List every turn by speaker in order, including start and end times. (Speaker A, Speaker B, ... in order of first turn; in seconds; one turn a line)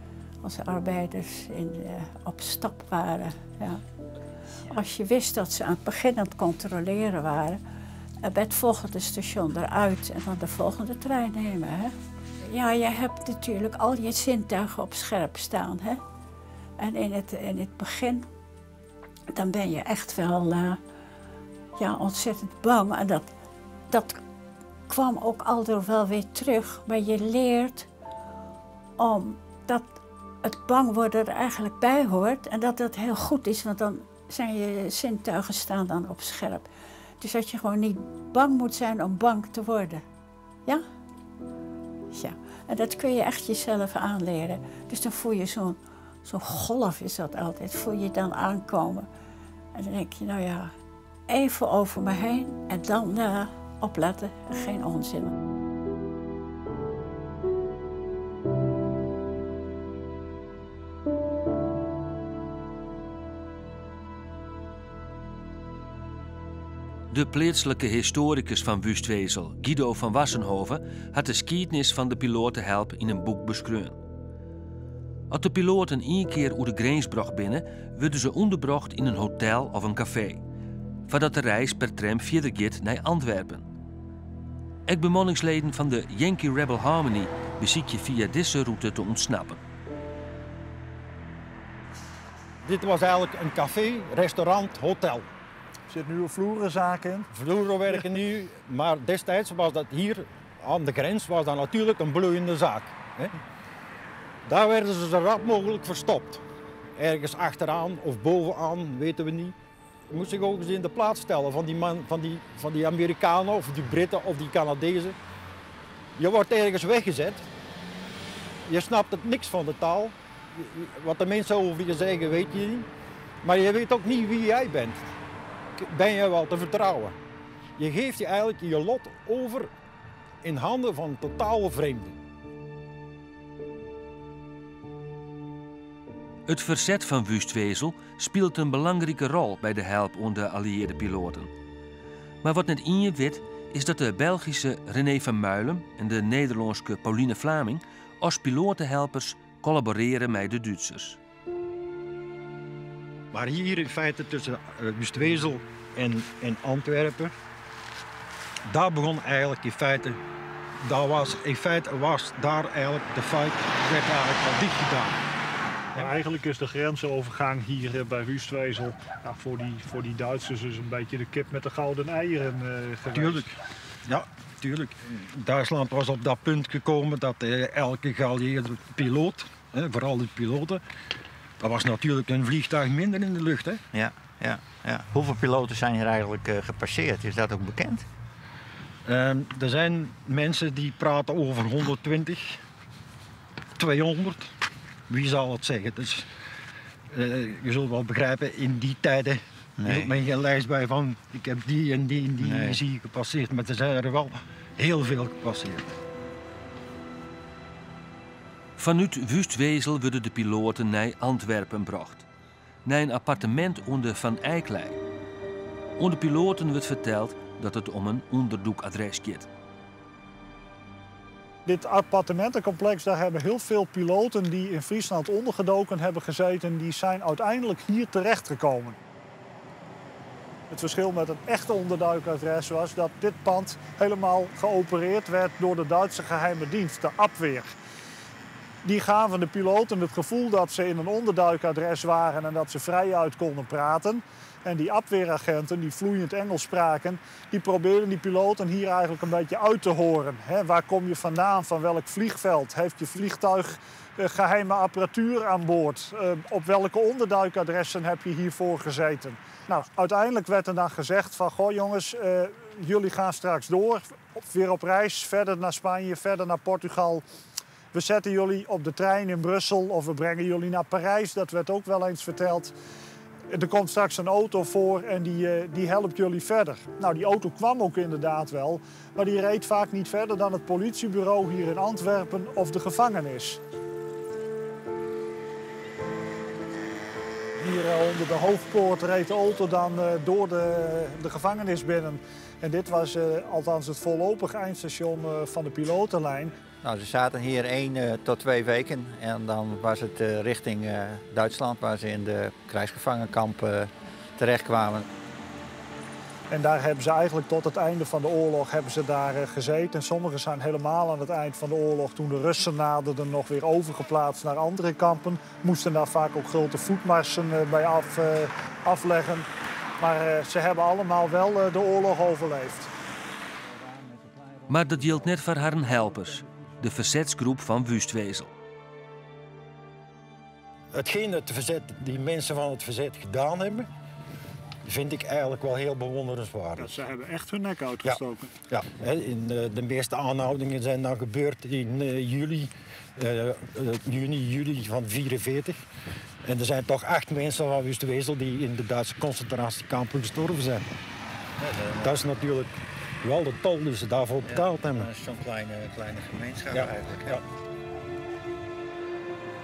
Speaker A: 0.4-3.8
Speaker A: 4.7-7.6
Speaker A: 8.2-16.0
Speaker A: 16.8-18.2
Speaker A: 19.3-20.8
Speaker A: 21.8-23.3
Speaker A: 23.9-24.2
Speaker A: 24.9-27.9
Speaker A: 29.0-29.9
Speaker A: 30.4-36.6
Speaker A: 37.2-40.0
Speaker A: 42.1-49.1
Speaker A: 49.7-50.7
Speaker A: 51.3-55.3
Speaker B: 67.1-74.0
Speaker B: 75.3-80.4
Speaker B: 81.1-83.6
Speaker B: 84.9-89.6
Speaker C: 92.6-95.3
Speaker D: 95.9-97.3
Speaker C: 97.3-103.4
Speaker C: 104.5-106.4
Speaker C: 107.0-109.5
Speaker C: 110.1-115.2
Speaker C: 116.2-117.5
Speaker C: 118.7-122.9
Speaker C: 123.4-125.1
Speaker C: 125.8-127.2
Speaker C: 127.8-129.7
Speaker C: 130.4-132.2
Speaker B: 136.5-141.5
Speaker B: 142.4-151.2
Speaker C: 153.3-157.3
Speaker C: 158.7-160.2
Speaker C: 160.8-165.2
Speaker D: 165.9-173.5
Speaker C: 173.1-173.5
Speaker C: 174.1-180.8
Speaker C: 181.6-183.8
Speaker E: 183.9-188.1
Speaker C: 189.0-192.6
Speaker C: 193.8-194.5
Speaker C: 195.1-196.3
Speaker C: 197.1-205.9
Speaker E: 199.8-200.1
Speaker E: 202.4-202.8
Speaker B: 208.8-212.2
Speaker B: 212.8-215.0
Speaker B: 216.0-219.5
Speaker D: 221.7-229.0
Speaker D: 230.7-237.7
Speaker D: 238.8-267.2
Speaker D: 267.9-272.7
Speaker D: 273.5-283.6
Speaker D: 287.6-296.5
Speaker E: 296.8-305.1
Speaker D: 306.5-322.9
Speaker B: 324.7-328.5
Speaker C: 330.9-333.9
Speaker C: 334.8-336.9
Speaker D: 336.8-338.5
Speaker C: 338.0-345.8
Speaker C: 346.4-350.9
Speaker E: 351.6-352.2
Speaker C: 352.0-355.1
Speaker E: 354.4-357.4
Speaker C: 356.7-357.4